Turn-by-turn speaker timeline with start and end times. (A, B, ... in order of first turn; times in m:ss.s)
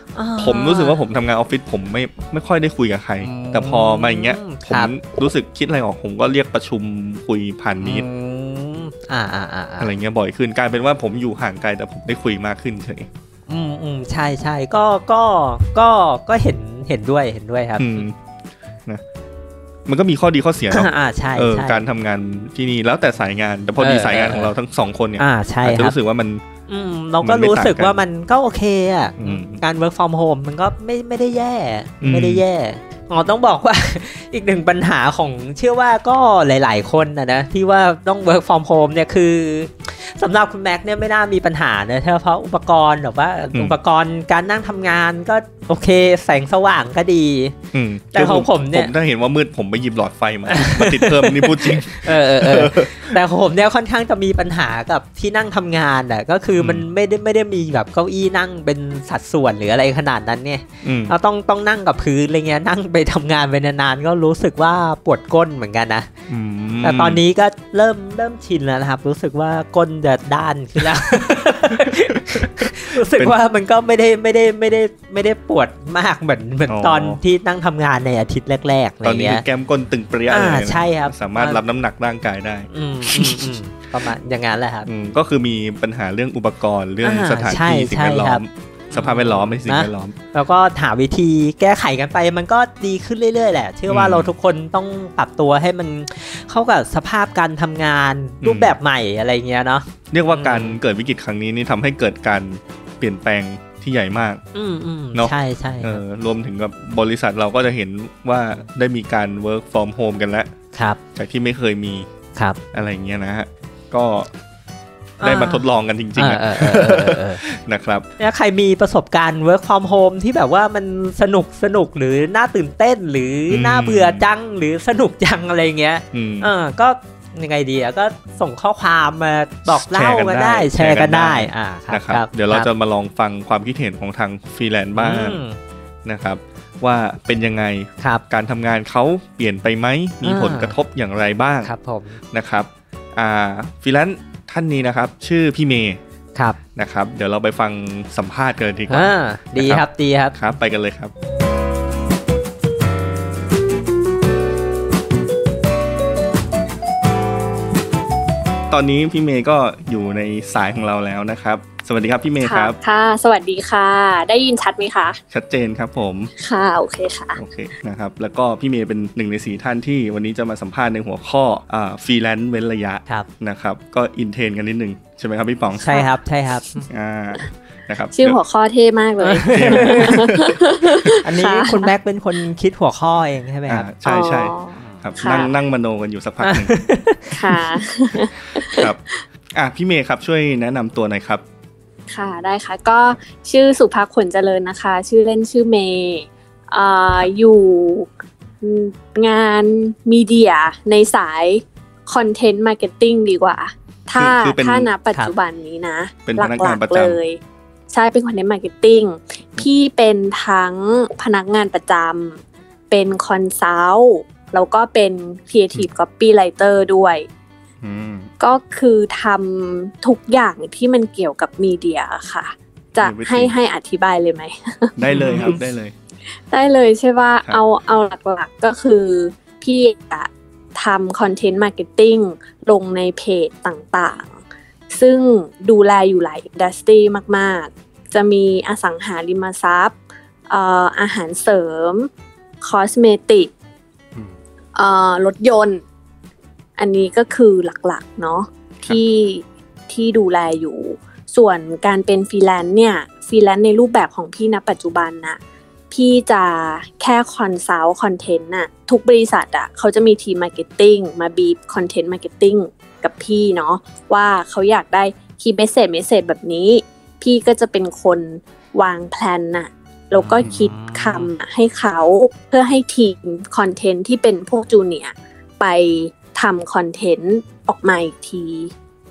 0:00.2-0:01.0 A
0:00.4-0:08.1 B
0:03.2-0:05.0 A
0:07.8-0:09.9 A
0:09.8-0:13.1 B
0:13.5-0:18.0 A
0:17.8-0:18.2 B
0:19.9-0:26.4 B
0:20.7-0:21.8 A
0:23.8-0:24.5 A
0:25.2-0:26.0 A
0:26.7-0:47.6 A
0:27.2-0:28.0 B
0:29.2-0:29.6 B
0:32.0-0:32.4 B
0:47.7-0:53.2 B
0:48.1-0:48.9 A
0:50.5-1:06.1 A
0:56.6-0:56.8 B
1:00.8-1:01.1 B
1:06.3-1:07.2 B
1:06.8-1:19.4 A
1:11.7-1:13.4 B
1:16.7-1:17.2 B
1:19.0-1:23.6 B
1:20.3-1:21.6 A
1:22.7-1:24.9 A
1:24.8-1:30.2 B
1:27.0-1:40.8 A
1:33.9-1:34.3 B
1:38.4-1:38.8 B
1:40.1-1:44.4 B
1:44.5-1:46.0 A
1:45.2-1:50.5 B
1:50.7-1:51.0 A
1:51.2-1:52.1 B
1:52.7-1:54.3 B
1:55.2-1:55.6 A
1:55.2-1:58.1 B
1:56.2-1:57.4 A
1:58.2-2:12.7 A
2:03.5-2:04.2 B
2:06.1-2:06.5 B
2:09.7-2:15.4 B
2:15.0-2:15.6 A
2:16.0-2:21.7 B
2:20.2-2:20.8 A
2:21.6-2:22.2 A
2:22.3-2:26.0 B
2:26.8-2:31.1 B
2:28.9-2:30.4 A
2:38.7-2:42.8 B
2:42.4-2:45.2 C
2:45.3-2:46.3 B
2:46.4-2:47.4 C
2:47.4-2:55.9 B
2:55.8-2:56.9 A
2:55.8-2:56.1 C
2:56.9-2:58.4 B
2:58.2-3:01.9 C
2:59.2-3:00.3 A
2:59.5-3:01.1 B
3:01.1-3:03.9 A
3:03.7-3:06.7 B
3:04.0-3:05.5 C
3:04.8-3:05.4 A
3:06.4-3:07.6 A
3:07.3-3:09.2 C
3:08.7-3:09.0 B
3:09.6-3:11.4 B
3:12.1-3:18.1 C
3:18.6-3:27.4 C
3:24.2-3:24.9 B
3:26.3-3:27.2 B
3:27.9-3:37.3 C
3:37.8-3:38.3 B
3:38.4-3:45.6 C
3:43.0-3:43.5 B
3:45.0-3:45.9 B
3:45.1-3:45.5 A
3:46.5-3:54.4 C
3:54.9-4:00.0 C
4:00.5-4:02.1 C
4:02.6-4:03.5 C
4:04.8-4:05.8 C
4:06.8-4:15.4 C
4:15.9-4:38.7 C
4:30.1-4:31.3 A
4:30.4-4:30.8 B